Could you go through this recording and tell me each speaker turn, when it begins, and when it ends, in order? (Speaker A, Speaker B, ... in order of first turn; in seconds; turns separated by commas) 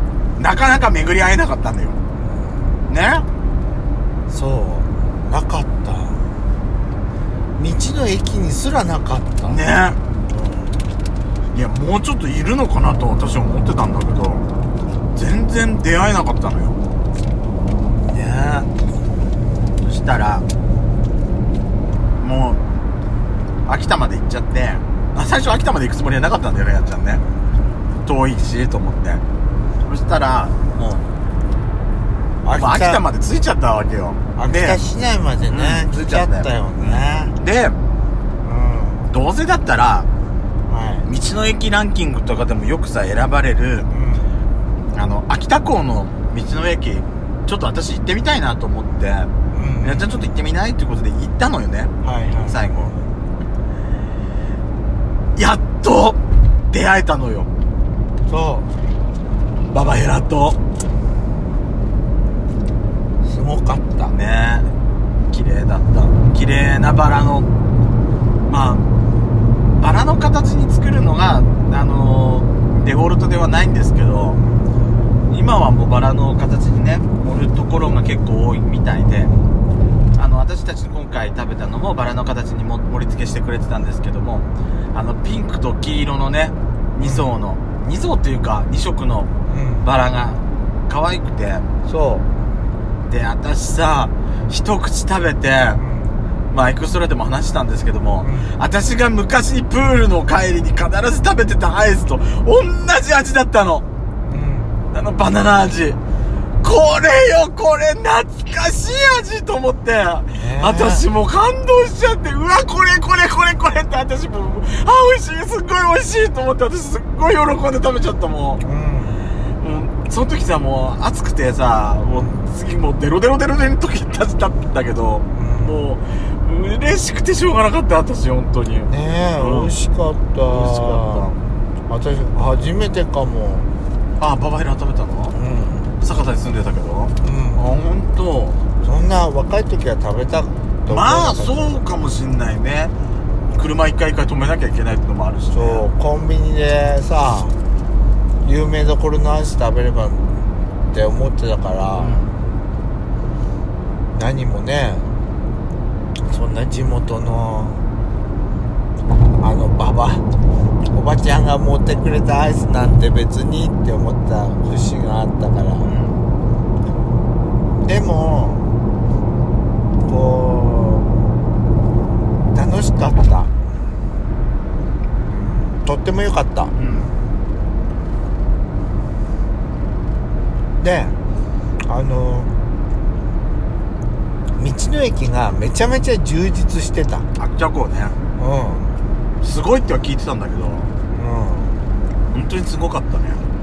Speaker A: 0.4-2.0, Speaker A: 2.9-3.2, Speaker B: 4.3-6.2, Speaker B: 7.6-9.6, Speaker A: 9.4-10.0, Speaker B: 10.3-10.8, Speaker A: 11.5-14.4, Speaker A: 15.1-16.8, Speaker A: 18.1-18.7, Speaker A: 19.8-20.5, Speaker A: 22.2-22.6, Speaker A: 23.7-27.2, Speaker A: 28.1-29.2, Speaker A: 29.9-31.1, Speaker B: 32.4-33.0, Speaker A: 32.5-34.8, Speaker B: 34.4-37.4, Speaker A: 35.5-37.8, Speaker B: 38.4-39.1, Speaker A: 39.1-40.1, Speaker B: 40.7-41.1, Speaker A: 41.0-43.9, Speaker B: 43.9-44.3, Speaker A: 44.9-49.3, Speaker B: 49.5-50.2, Speaker A: 49.8-51.9, Speaker B: 52.0-52.9, Speaker A: 52.5-53.0, Speaker A: 55.4-56.2, Speaker A: 56.7-57.5, Speaker B: 58.3-58.7, Speaker A: 59.7-60.6, Speaker B: 63.2-64.1, Speaker A: 64.1-64.7, Speaker A: 65.3-67.5, Speaker A: 68.5-68.8, Speaker A: 69.8-74.4, Speaker A: 75.3-79.3, Speaker A: 80.2-89.3, Speaker B: 89.5-89.9, Speaker A: 89.8-91.7, Speaker B: 91.9-92.3, Speaker A: 93.1-95.8, Speaker B: 95.7-96.2, Speaker A: 96.5-103.8, Speaker B: 98.2-98.5, Speaker B: 104.2-104.8, Speaker A: 104.9-106.0, Speaker A: 106.6-118.6, Speaker B: 110.3-111.1, Speaker B: 118.6-119.2, Speaker A: 119.6-129.7, Speaker B: 125.3-125.8, Speaker B: 128.9-131.3, Speaker A: 130.4-131.4, Speaker B: 131.9-133.7, Speaker A: 134.2-135.4, Speaker B: 135.3-135.9, Speaker A: 136.0-138.6, Speaker B: 137.2-137.6, Speaker B: 138.8-141.8, Speaker A: 140.9-142.9, Speaker A: 143.5-145.9, Speaker B: 145.5-147.6, Speaker B: 148.4-150.3, Speaker B: 150.9-152.2, Speaker A: 152.0-152.3, Speaker B: 154.1-155.1, Speaker B: 156.3-157.8, Speaker B: 159.4-160.2, Speaker B: 160.9-165.9, Speaker A: 165.8-166.2, Speaker B: 167.8-168.6, Speaker B: 170.1-171.1, Speaker B: 172.5-173.5, Speaker B: 175.3-176.7, Speaker A: 176.8-177.1, Speaker B: 180.8-181.2, Speaker B: 181.8-182.5, Speaker B: 184.6-187.3, Speaker A: 187.4-188.2, Speaker B: 188.4-188.9, Speaker A: 189.4-190.9, Speaker B: 191.1-191.8, Speaker A: 192.3-193.4